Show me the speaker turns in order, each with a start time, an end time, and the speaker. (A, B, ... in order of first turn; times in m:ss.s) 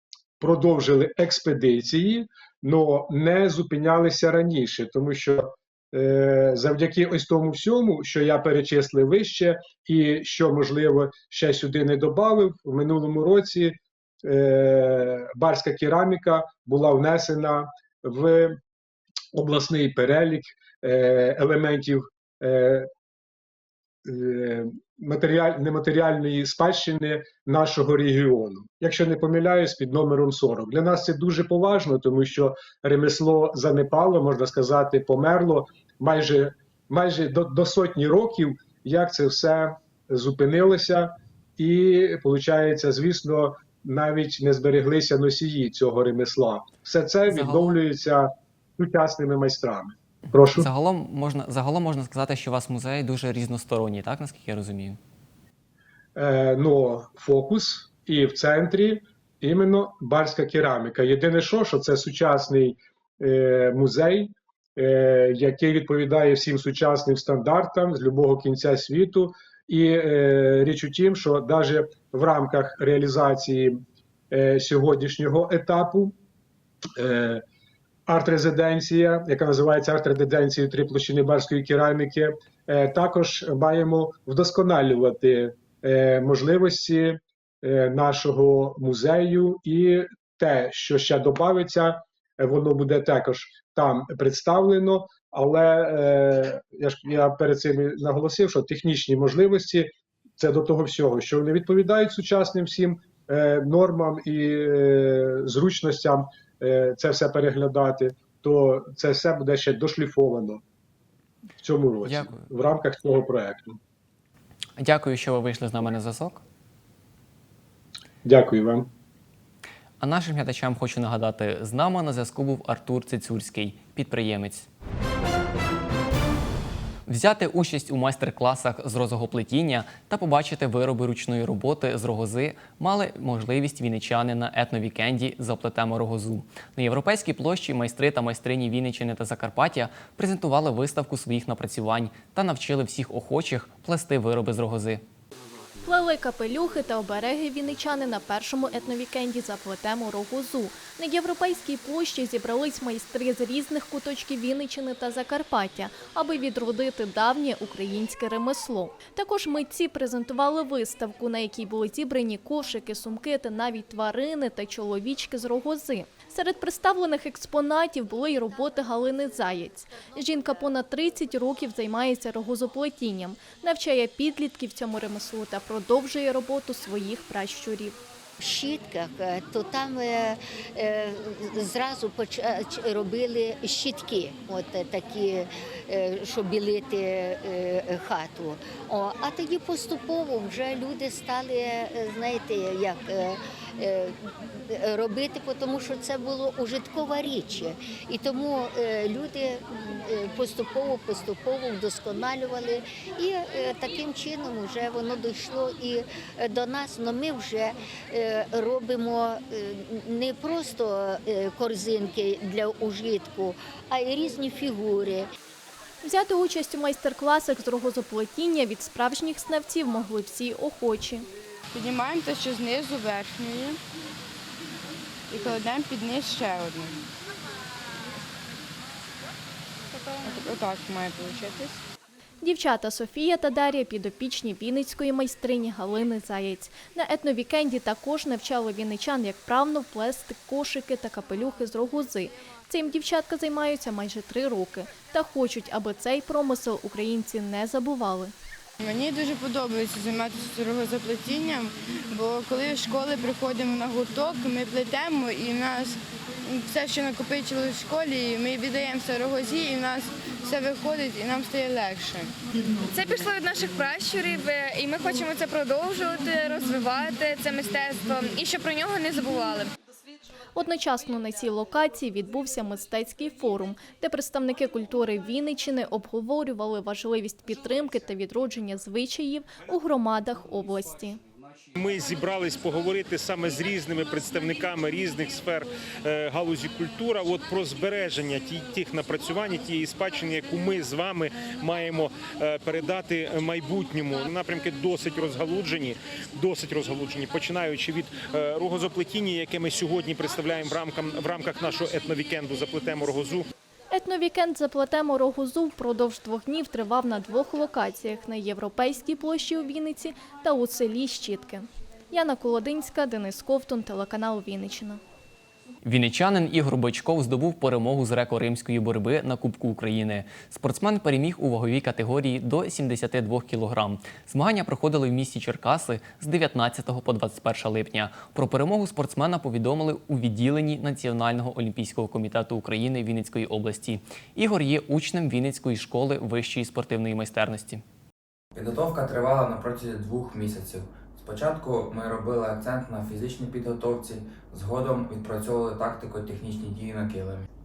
0:00.4-0:18.6 A
0:19.3-0:22.9 A
0:24.0-0:50.7 A
0:47.3-0:47.7 B
0:50.5-0:55.0 B
0:56.2-1:13.8 A
1:14.3-1:16.1 A
1:17.0-1:17.4 A
1:18.1-1:50.6 A
1:51.6-1:53.8 A
1:52.0-1:52.4 B
1:54.8-1:56.4 B
1:58.2-1:58.9 A
2:00.0-2:04.7 B
2:07.1-2:25.0 B
2:25.8-2:57.9 C
2:58.4-3:14.2 D
3:14.7-3:35.3 D
3:36.0-3:41.3 C
3:41.7-3:43.8 E
3:45.3-3:47.0 E
3:50.1-3:51.8 E
3:52.4-4:08.3 C
4:08.8-4:22.3 E
4:22.9-4:29.7 F
4:30.5-4:41.2 C
4:41.7-5:03.4 G
5:03.9-5:15.0 C
5:15.8-5:37.8 B
5:38.5-5:47.4 H